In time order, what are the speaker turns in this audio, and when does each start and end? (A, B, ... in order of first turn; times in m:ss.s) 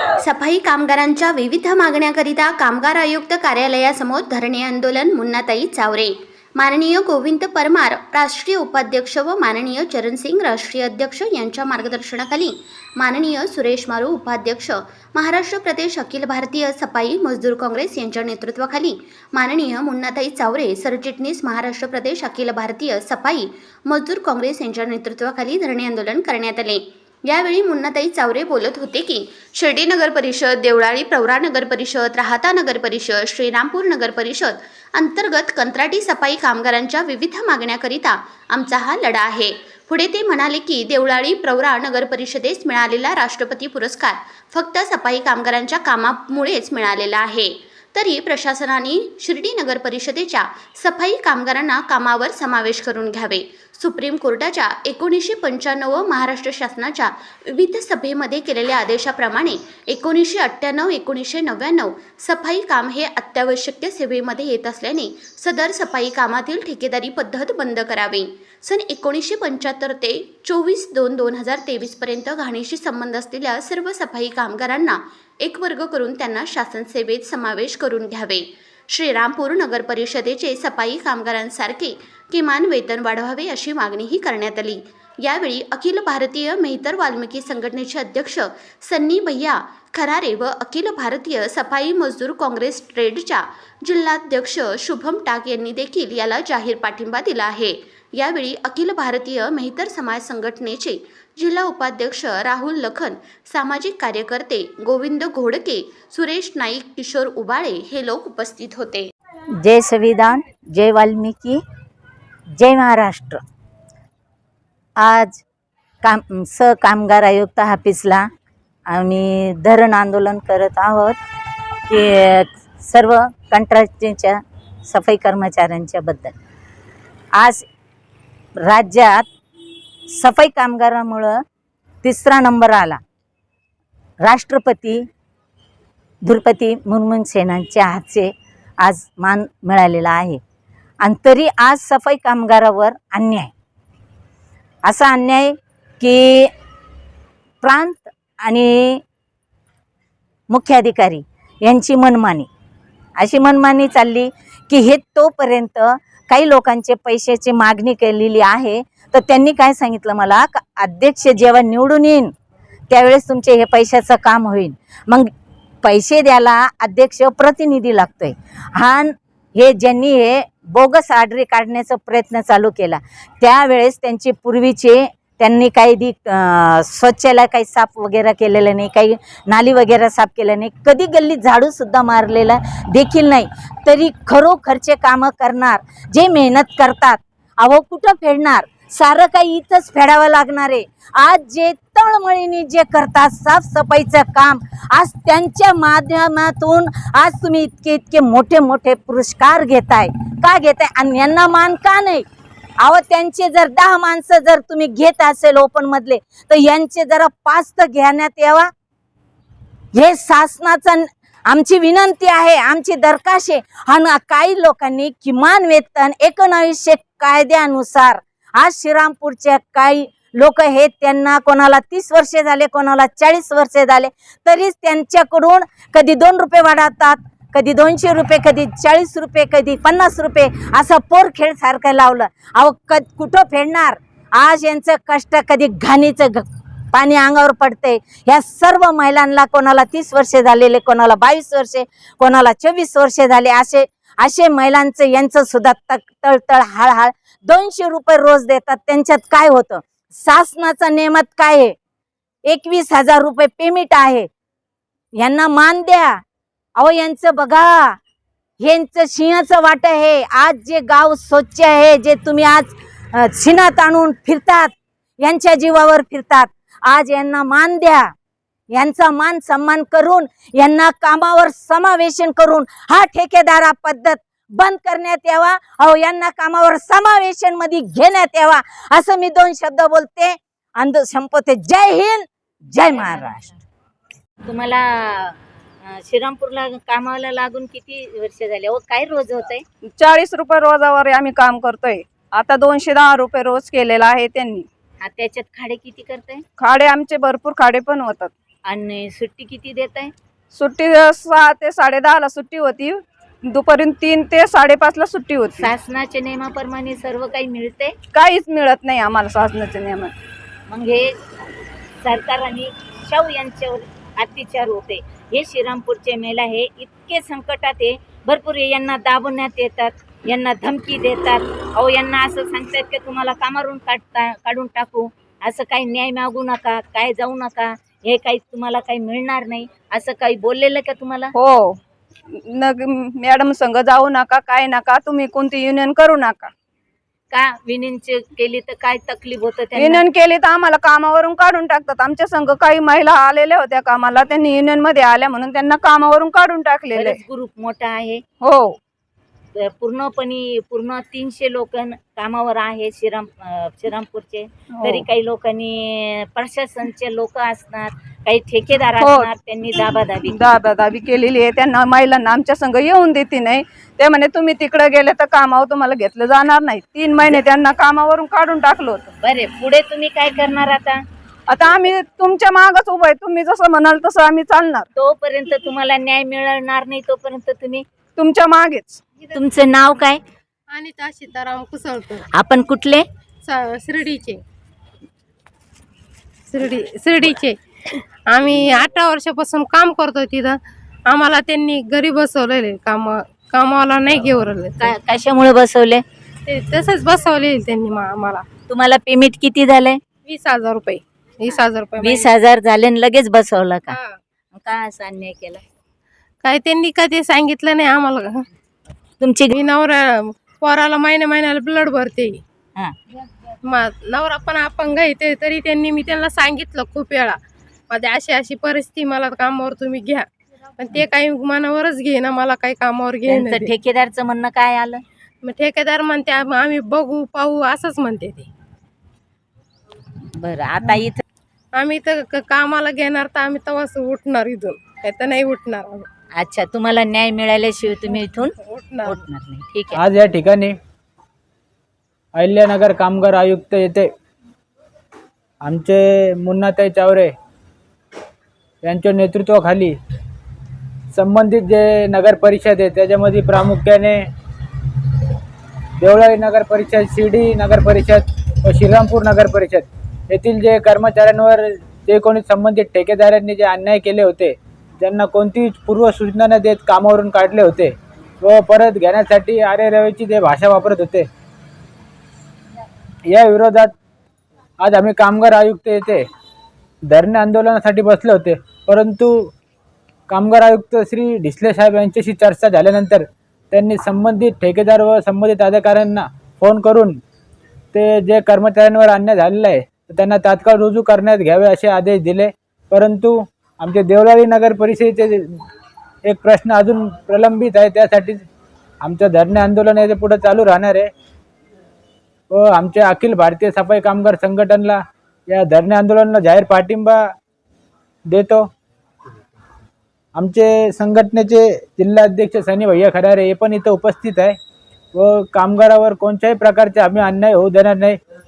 0:00.2-1:49.1 A
1:49.6-1:51.6 B
1:52.6-1:53.4 B
1:55.0-1:55.4 B
1:56.0-1:58.2 B
1:58.9-2:01.2 B
2:01.9-2:04.4 B
2:04.9-2:06.3 B
2:07.4-2:07.6 B
2:08.6-2:09.3 B
2:10.2-2:11.4 B
2:12.0-2:13.0 B
2:14.2-2:15.0 B
2:16.2-2:18.3 B
2:18.8-2:20.4 B
2:21.0-2:23.5 B
2:24.8-2:26.5 B
2:27.6-2:29.0 B
2:30.5-2:32.5 B
2:33.2-2:42.3 B
2:42.9-2:45.3 B
2:45.8-3:22.2 B
3:22.8-3:28.7 B
3:29.9-4:11.7 B
4:12.5-4:14.3 B
4:15.2-4:16.2 B
4:16.8-4:18.0 B
4:18.6-4:28.1 B
4:28.7-4:43.5 B
4:44.4-4:49.6 B
4:49.8-4:54.7 C
4:55.0-4:56.4 B
4:56.6-4:58.3 C
4:58.6-5:00.1 B
5:00.5-5:05.7 C
5:05.6-5:07.9 B
5:08.1-5:10.2 C
5:10.7-5:11.1 B
5:12.0-5:31.3 B
5:31.3-5:36.5 C
5:37.3-5:40.0 B
5:39.7-5:47.2 C
5:46.9-5:48.2 B
5:48.4-5:48.8 C
5:49.6-6:00.4 B
5:54.7-5:55.1 C
5:59.0-5:59.3 C
6:00.2-6:09.1 C
6:09.2-6:11.0 B
6:11.5-6:14.8 C
6:15.0-6:17.8 B
6:18.2-6:19.0 C
6:19.3-6:20.2 B
6:20.7-6:22.2 D
6:22.3-6:23.0 B
6:23.4-6:24.4 D
6:26.5-6:34.9 D
6:34.8-6:36.0 B
6:36.5-6:38.4 D
6:38.7-6:40.0 B
6:40.3-6:42.3 D
6:41.5-6:44.0 B
6:43.9-6:44.2 D
6:44.5-6:45.6 B
6:46.4-6:48.4 D
6:49.2-6:49.5 B
6:49.5-6:52.4 D
6:53.7-6:57.4 D
6:57.9-7:00.2 D
7:00.8-7:03.7 D
7:03.2-7:05.0 B
7:05.4-7:08.5 D
7:10.3-7:11.2 B
7:11.8-7:16.1 D
7:16.4-7:20.0 B
7:18.1-7:19.2 D
7:19.9-7:20.8 E
7:22.4-7:24.1 E
7:25.6-7:27.3 E
7:28.8-7:29.9 E
7:31.1-7:34.2 E
7:36.0-7:51.3 E
7:53.3-7:53.9 E
7:54.8-7:56.2 E
7:57.1-7:59.5 E
8:00.3-8:07.2 E
8:07.9-8:15.6 E
8:16.2-8:18.4 E
8:19.0-8:21.1 E
8:22.5-8:27.2 E
8:28.3-8:28.6 E
8:30.4-8:34.6 E
8:35.1-8:38.2 E